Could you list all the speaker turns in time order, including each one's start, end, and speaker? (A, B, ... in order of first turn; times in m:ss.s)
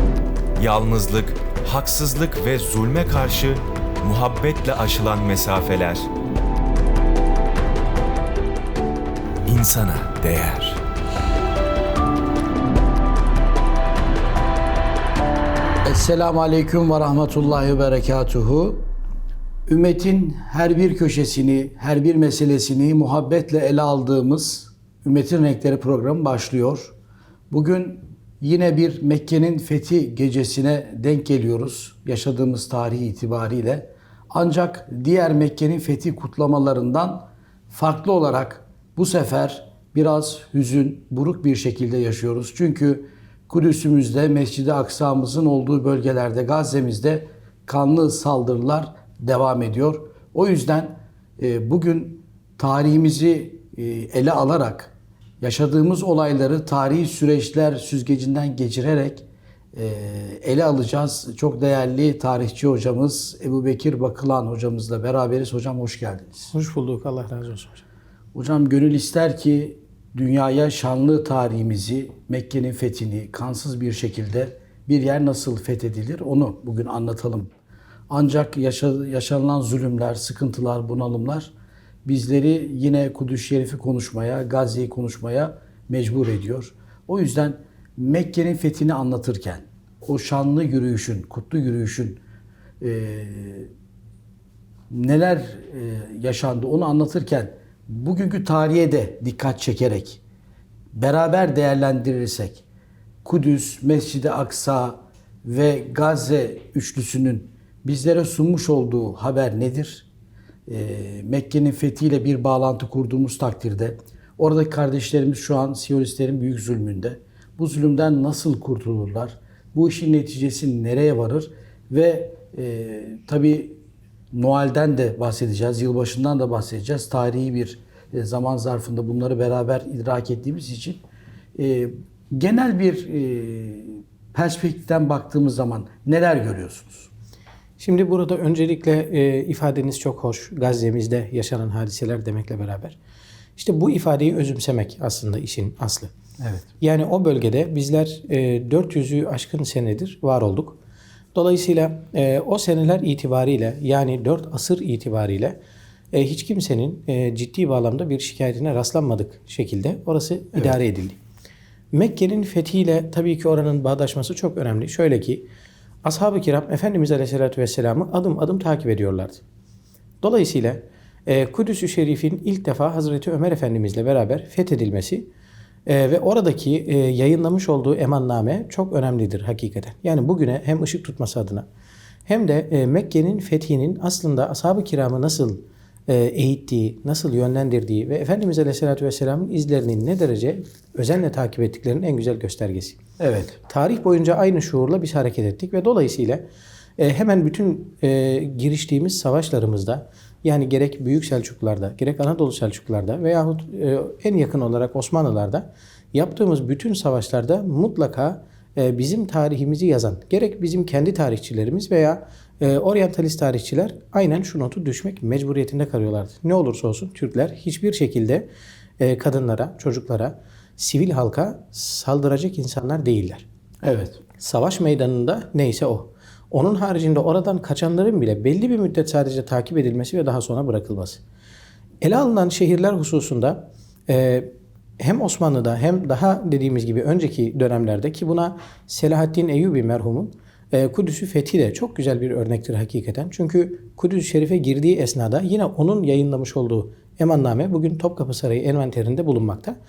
0:00.6-0:06.0 A
0:09.4-0:10.8 A
0:15.8-0:18.9 B
0:19.7-0:26.9 B
0:27.5-1:06.5 B
1:06.5-1:07.8 C
1:08.3-1:17.5 B
1:18.1-1:21.5 B
1:22.0-1:32.2 B
1:32.8-1:33.7 B
1:34.9-1:40.2 B
1:40.9-1:42.6 B
1:43.2-1:50.0 B
1:50.7-2:03.8 B
2:04.3-2:11.0 B
2:11.6-2:17.1 B
2:17.8-2:23.0 C
2:23.6-2:26.1 C
2:26.4-2:26.6 B
2:26.8-2:30.8 C
2:31.3-2:35.6 C
2:36.1-2:41.2 C
2:41.9-2:45.4 C
2:46.0-2:49.4 C
2:50.2-2:55.3 C
2:55.8-3:01.6 C
3:02.3-3:13.0 C
3:13.2-3:13.5 B
3:13.7-3:16.4 C
3:17.0-3:38.5 C
3:39.0-3:43.4 C
3:43.8-3:44.2 B
3:44.4-3:51.2 C
3:52.0-4:09.8 C